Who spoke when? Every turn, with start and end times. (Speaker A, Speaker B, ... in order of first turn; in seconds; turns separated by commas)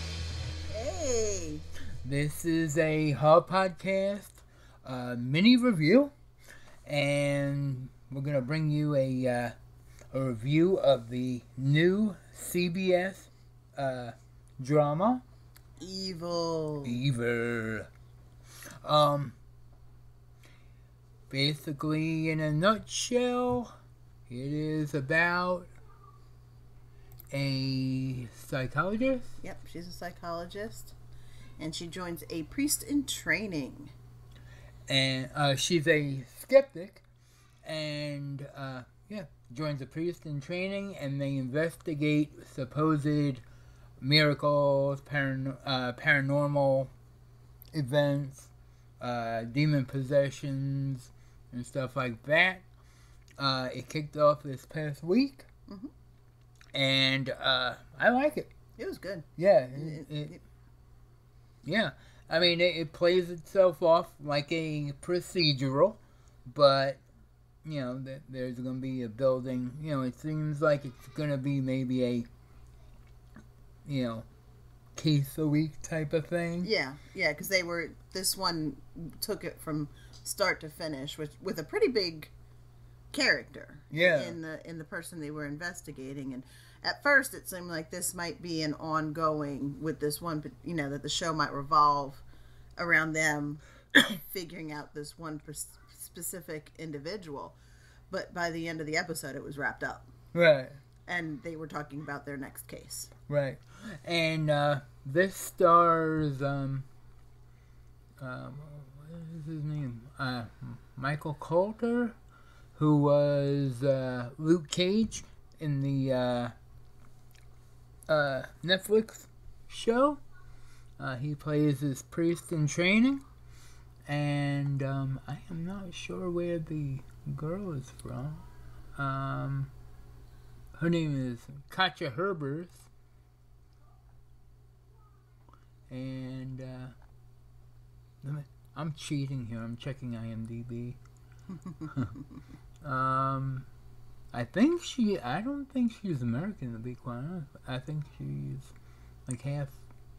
Speaker A: 0.7-1.6, Speaker B: 2.0-6.1, Speaker B: 6.9-9.6, Speaker B: 10.1-15.2, Speaker A: 15.8-17.0, Speaker B: 16.8-17.9, Speaker B: 18.8-19.4, Speaker B: 21.3-23.7, Speaker B: 24.3-25.7, Speaker B: 27.3-29.4, Speaker A: 29.4-30.9, Speaker A: 31.6-33.9, Speaker B: 34.9-37.0, Speaker B: 37.6-43.4, Speaker B: 44.0-46.9, Speaker B: 47.7-52.6, Speaker B: 53.4-55.5, Speaker B: 56.7-58.5, Speaker A: 58.8-60.4, Speaker B: 59.4-60.4, Speaker B: 61.6-67.0, Speaker B: 67.7-72.3, Speaker B: 73.8-74.2, Speaker B: 75.0-76.7, Speaker A: 76.6-82.3, Speaker A: 83.1-92.2, Speaker B: 83.9-84.4, Speaker A: 92.8-97.6, Speaker A: 98.1-100.1, Speaker B: 100.3-100.8, Speaker A: 101.1-103.1, Speaker B: 103.3-106.9, Speaker B: 108.2-112.2, Speaker B: 112.8-116.5, Speaker B: 118.1-120.2, Speaker B: 121.0-123.2, Speaker B: 124.1-128.4, Speaker B: 129.0-129.7, Speaker B: 130.8-132.9, Speaker B: 135.9-136.9, Speaker B: 138.2-141.0, Speaker B: 142.8-143.7, Speaker B: 144.3-148.7, Speaker B: 149.3-149.8